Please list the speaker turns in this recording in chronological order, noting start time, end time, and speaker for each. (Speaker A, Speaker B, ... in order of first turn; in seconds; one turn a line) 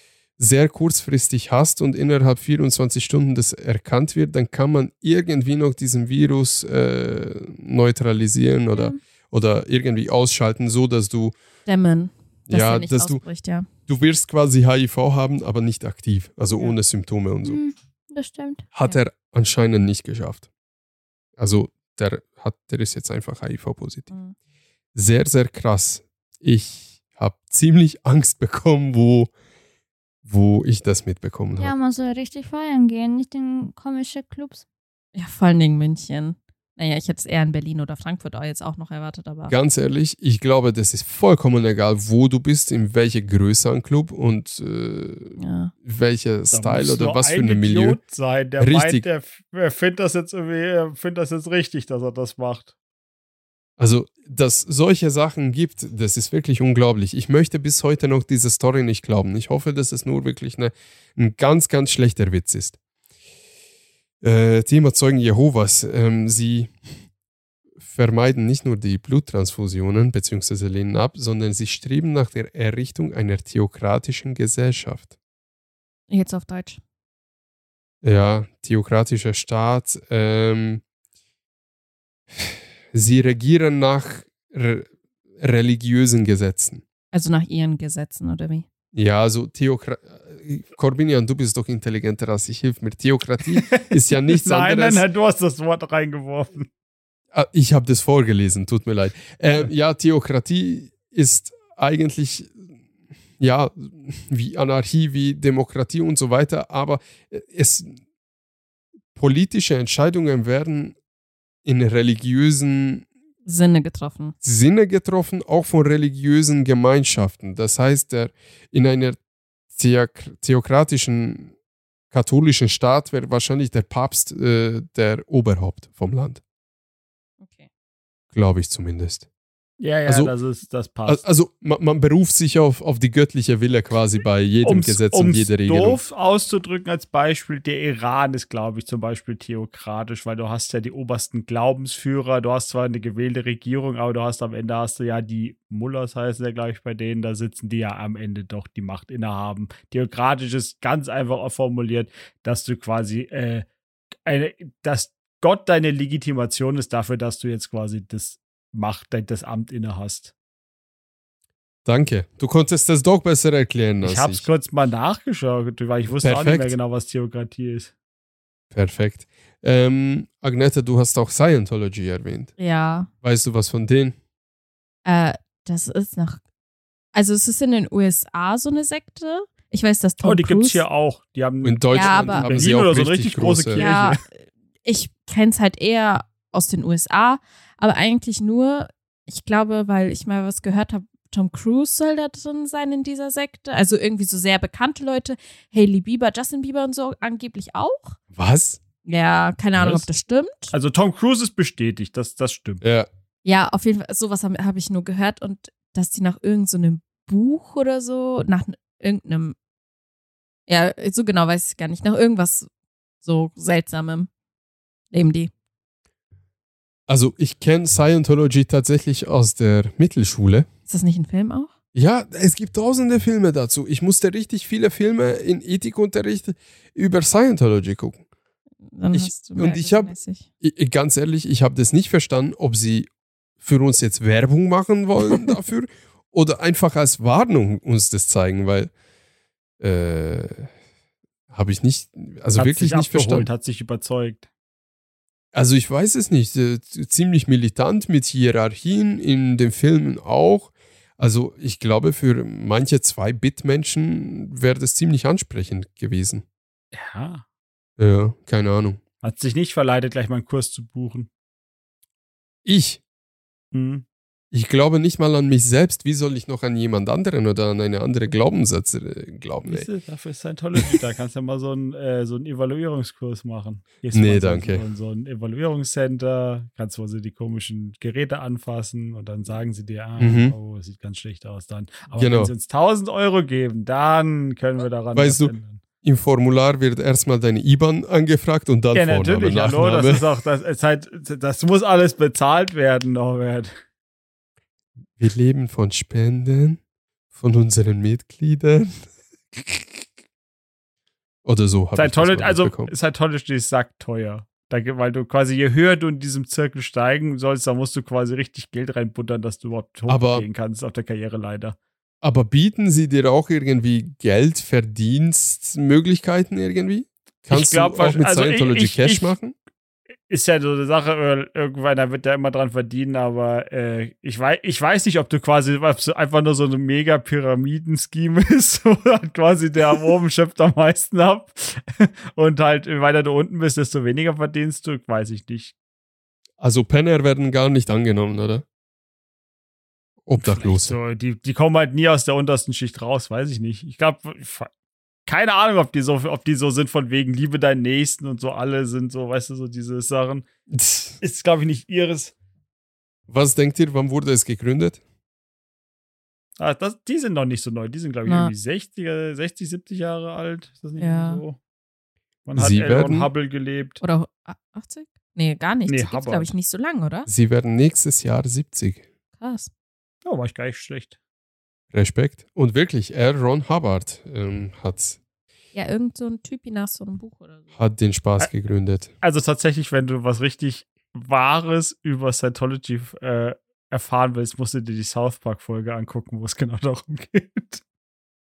Speaker A: 0.4-11.3
Speaker B: 11.7-13.7
Speaker A: 12.5-13.2
Speaker A: 13.9-17.6
Speaker C: 17.4-18.6
Speaker A: 18.7-20.4
Speaker A: 21.4-24.1
Speaker B: 24.1-24.3
Speaker A: 24.9-29.3
Speaker A: 30.2-31.7
Speaker C: 31.6-34.6
Speaker B: 35.1-39.5
Speaker A: 39.5-48.0
Speaker B: 45.4-45.7
Speaker D: 46.5-52.7
Speaker A: 48.6-49.0
Speaker A: 53.8-62.8
Speaker A: 64.2-66.7
Speaker A: 67.8-75.1
Speaker B: 76.1-76.8
Speaker A: 78.0-80.8
Speaker A: 82.3-86.8
Speaker B: 87.1-88.6
Speaker A: 88.9-95.0
Speaker D: 93.5-96.7
Speaker A: 97.3-102.5
Speaker A: 103.4-108.0
Speaker A: 109.1-111.0
Speaker A: 111.6-113.1
Speaker B: 113.4-114.3
Speaker A: 114.4-119.2
Speaker A: 119.7-121.5
Speaker A: 122.1-126.4
Speaker B: 127.4-127.7
Speaker A: 128.3-129.2
Speaker D: 129.8-131.2
Speaker A: 130.1-130.3
Speaker A: 131.1-136.0
Speaker D: 134.6-153.7
Speaker D: 154.2-160.3
Speaker A: 161.8-164.4
Speaker D: 164.0-167.9
Speaker A: 166.2-166.7
Speaker A: 168.7-172.5
Speaker B: 172.6-173.1
Speaker A: 173.2-174.2
Speaker B: 175.0-176.4
Speaker B: 177.1-180.8
Speaker D: 180.2-184.2
Speaker A: 181.6-183.9
Speaker B: 181.9-182.7
Speaker B: 183.7-198.2
Speaker A: 198.3-198.8
Speaker B: 199.0-200.7
Speaker D: 200.7-202.8
Speaker A: 202.8-203.1
Speaker B: 203.4-209.6
Speaker B: 210.7-212.7
Speaker B: 213.2-214.3
Speaker B: 215.1-215.5
Speaker A: 217.1-220.7
Speaker B: 220.9-221.7
Speaker A: 221.9-228.2
Speaker B: 228.9-230.4
Speaker A: 229.1-233.1
Speaker A: 233.6-238.9
Speaker A: 239.8-240.7
Speaker A: 241.5-243.5
Speaker D: 242.6-244.4
Speaker A: 245.5-256.4
Speaker D: 256.9-257.4
Speaker A: 258.0-259.0
Speaker D: 259.2-261.3
Speaker A: 262.6-263.0
Speaker D: 263.7-264.0
Speaker A: 264.5-269.9
Speaker D: 269.6-285.8
Speaker A: 274.1-274.8
Speaker A: 280.2-280.6
Speaker A: 282.2-282.5
Speaker A: 285.1-290.2
Speaker D: 288.9-293.7
Speaker A: 295.2-296.8
Speaker A: 297.3-300.0
Speaker A: 301.4-302.9
Speaker D: 301.9-311.8
Speaker A: 310.1-310.4
Speaker A: 312.2-319.5
Speaker D: 317.5-319.3
Speaker D: 320.3-335.7
Speaker A: 336.6-338.6
Speaker A: 340.2-340.9
Speaker D: 340.4-344.7
Speaker D: 345.2-350.4
Speaker A: 350.7-351.2
Speaker D: 351.2-352.3
Speaker A: 353.3-355.0
Speaker D: 356.6-361.6
Speaker B: 358.2-358.5
Speaker B: 361.0-361.4
Speaker D: 362.4-364.0
Speaker A: 362.5-363.3
Speaker B: 364.0-367.3
Speaker D: 365.9-366.5
Speaker A: 367.3-369.0
Speaker B: 369.4-369.7
Speaker D: 370.2-371.1
Speaker A: 371.9-375.2
Speaker B: 375.7-377.6
Speaker A: 377.8-379.1
Speaker D: 379.2-387.8